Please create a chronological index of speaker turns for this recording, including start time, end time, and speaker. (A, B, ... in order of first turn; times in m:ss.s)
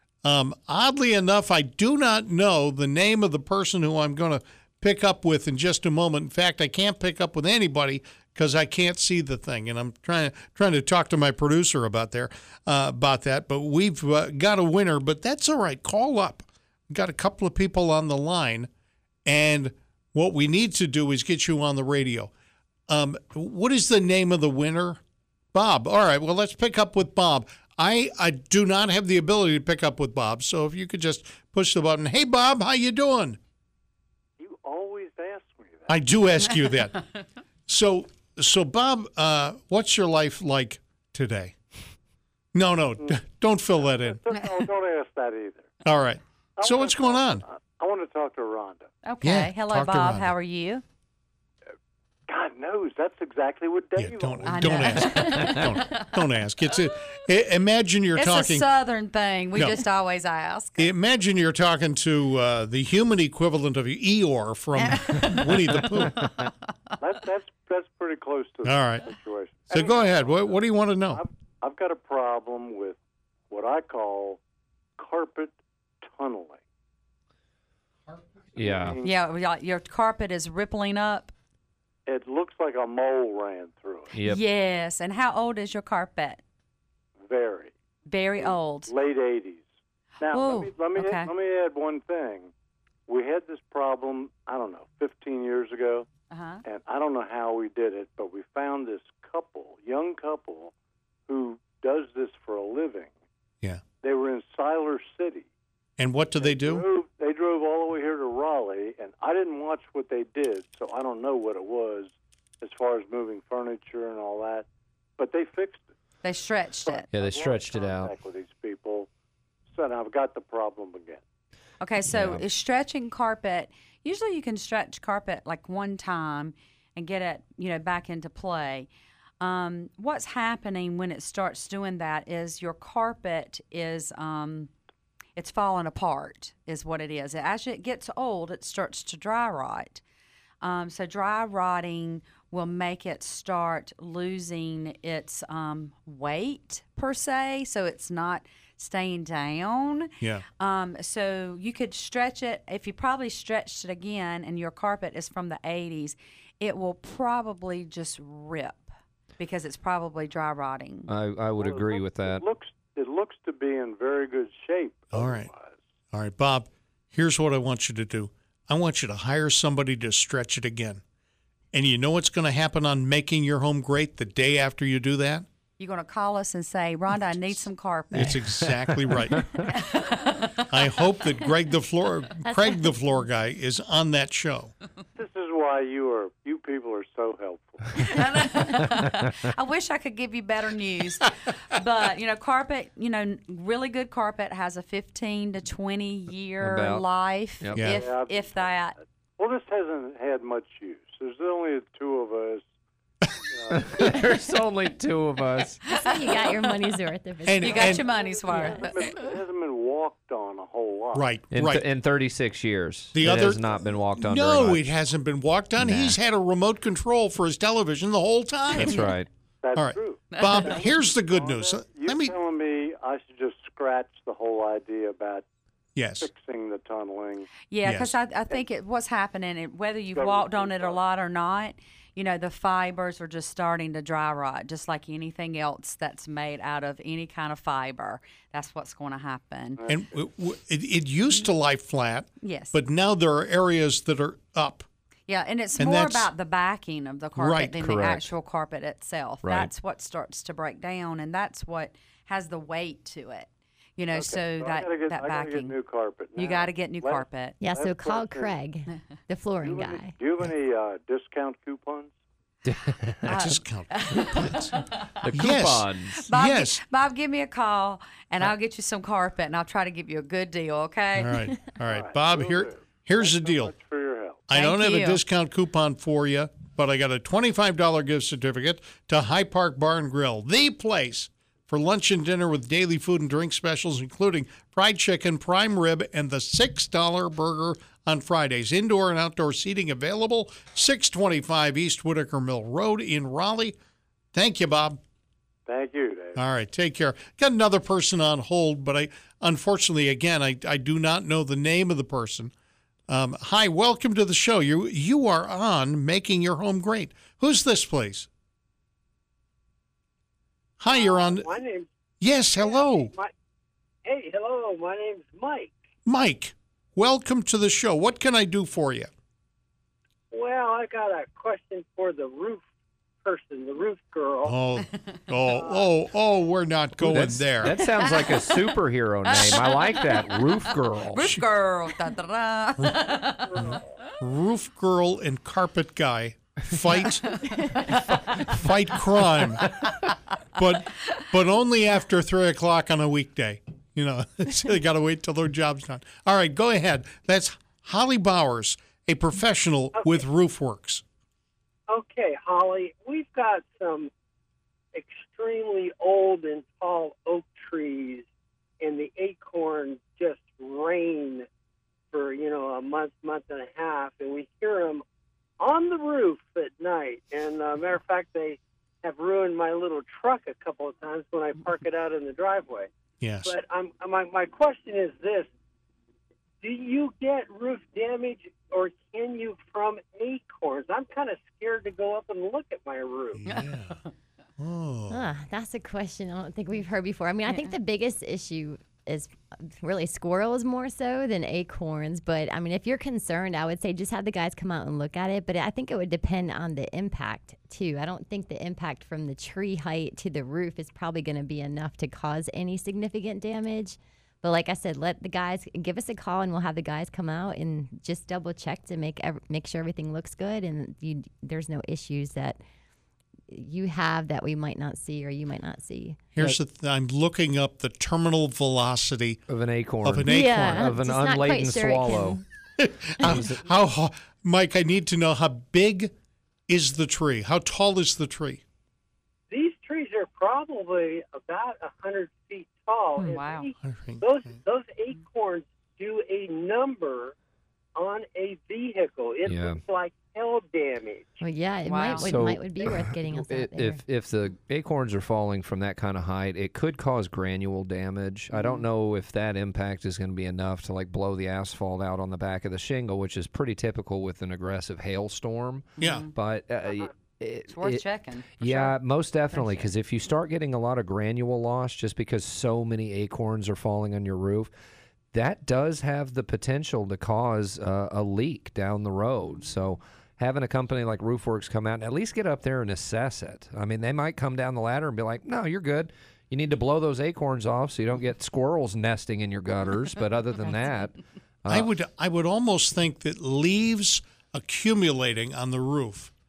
0:00.2-0:18.7 A
0:19.2-0:22.3 A
0:22.9-0:25.0 A
0:25.5-0:33.4 A
0:34.4-0:36.0 B
0:35.9-0:37.0 A
0:37.7-0:41.5 A
0:42.5-0:44.2 A
0:44.2-0:45.7 B
0:45.8-0:47.4 A
0:46.6-0:48.9 B
0:49.0-0:50.8 C
0:49.2-0:50.3 A
0:52.3-0:55.3 B
0:54.0-0:58.6 A
0:54.4-0:56.2 C
0:58.2-1:00.9 C
0:59.5-0:59.8 A
1:00.8-1:06.3 A
1:04.8-1:05.7 C
1:06.1-1:06.5 D
1:07.0-1:13.0 B
1:08.6-1:09.0 A
1:09.7-1:11.2 A
1:13.5-1:14.4 B
1:15.0-1:16.6 B
1:18.5-1:19.2 B
1:18.6-1:19.0 D
1:19.0-1:21.3 C
1:22.1-1:24.1 B
1:24.1-1:24.4 D
1:24.2-1:26.4 C
1:27.2-1:27.7 B
1:28.1-1:28.9 C
1:28.4-1:29.6 B
1:30.2-1:32.5 B
1:30.3-1:31.3 C
1:33.1-1:36.1 B
1:36.3-1:36.6 C
1:36.6-1:40.7 B
1:41.3-1:43.1 B
1:44.0-1:45.5 B
1:46.0-1:46.8 A
1:46.4-1:54.6 B
1:55.2-1:55.9 B
1:56.2-1:57.1 C
1:56.8-1:59.1 B
1:57.1-1:58.1 D
1:59.7-2:01.2 B
2:01.8-2:08.9 C
2:02.1-2:02.4 D
2:09.4-2:14.7 C
2:15.4-2:20.0 C
2:20.6-2:41.1 C
2:41.1-2:42.4 D
2:41.6-2:45.8 B
2:45.1-2:45.5 A
2:46.1-2:51.0 A
2:51.7-2:55.4 A
2:55.8-2:58.4 C
2:58.1-2:59.7 A
2:58.9-2:59.6 D
2:59.7-3:00.6 C
3:00.7-3:04.7 A
3:02.4-3:02.9 E
3:05.2-3:08.6 B
3:08.0-3:19.0 C
3:16.6-3:17.0 D
3:17.8-3:18.0 A
3:17.8-3:22.6 B
3:23.5-3:24.1 B
3:23.7-3:25.8 D
3:25.9-3:28.8 E
3:27.4-3:28.0 A
3:27.6-3:29.3 C
3:27.7-3:31.3 B
3:31.1-3:31.8 A
3:31.5-3:34.8 D
3:33.1-3:39.0 A
3:35.8-3:36.2 D
3:38.8-3:39.3 D
3:39.6-3:45.4 B
3:39.7-3:42.3 A
3:40.3-3:40.8 C
3:46.0-3:46.3 A
3:46.2-3:47.5 B
3:47.7-3:59.8 C
3:47.8-3:48.2 A
3:50.1-3:51.0 B
3:59.8-4:00.0 B
3:59.9-4:04.9 A
4:02.4-4:02.8 C
4:05.3-4:15.7 C
4:05.8-4:06.3 A
4:07.4-4:07.8 A
4:07.8-4:08.3 D
4:09.4-4:09.7 D
4:14.1-4:18.5 B
4:16.4-4:17.6 C
4:17.6-4:20.1 E
4:19.6-4:22.1 B
4:22.6-4:23.4 D
4:23.2-4:24.8 A
4:23.3-4:25.3 C
4:25.2-4:26.2 D
4:25.3-4:26.8 A
4:26.2-4:31.4 C
4:31.1-4:33.7 A
4:31.8-4:34.4 B
4:34.5-4:53.8 A
4:34.5-4:35.2 C
4:54.3-4:55.0 A
4:55.7-4:56.4 B
4:56.4-5:02.5 A
5:03.1-5:08.3 A
5:10.8-5:11.5 A
5:10.8-5:11.9 F
5:12.2-5:13.1 A
5:12.6-5:13.3 F
5:14.0-5:15.8 F
5:16.0-5:19.1 A
5:20.3-5:22.6 F
5:23.2-5:24.6 F
5:24.4-5:27.8 A
5:27.0-5:31.3 D
5:27.6-5:33.6 C
5:32.8-5:39.8 A
5:33.5-5:33.8 F
5:37.3-5:38.2 C
5:40.5-5:51.0 A
5:49.9-5:50.2 F
5:51.9-5:54.1 F
5:54.9-5:58.2 F
5:58.8-6:01.5 F
6:02.1-6:05.0 F
6:05.6-6:12.9 F
6:13.2-6:13.5 A
6:13.4-6:15.5 F
6:16.6-6:23.4 F
6:23.3-6:24.0 A
6:23.5-6:23.9 C
6:24.6-6:25.2 A
6:25.1-6:52.6 E
6:27.5-6:27.7 C
6:53.5-6:56.2 E
6:56.3-6:59.4 A
6:59.5-7:02.4 D
7:00.0-7:00.9 A
7:00.3-7:02.4 E
7:02.8-7:06.1 A
7:03.2-7:03.6 D
7:06.7-7:08.6 A
7:09.5-7:17.3 F
7:13.2-7:13.7 C
7:13.8-7:14.2 A
7:18.0-7:21.4 F
7:19.4-7:19.8 D
7:21.4-7:24.0 E
7:21.8-7:22.4 C
7:22.1-7:38.0 D
7:28.5-7:28.9 C
7:36.0-7:36.2 A
7:36.0-7:36.3 C
7:37.7-7:39.0 C
7:38.6-7:44.7 D
7:39.5-7:39.9 C
7:45.3-8:01.9 D
7:49.4-7:49.8 C
8:01.7-8:06.3 A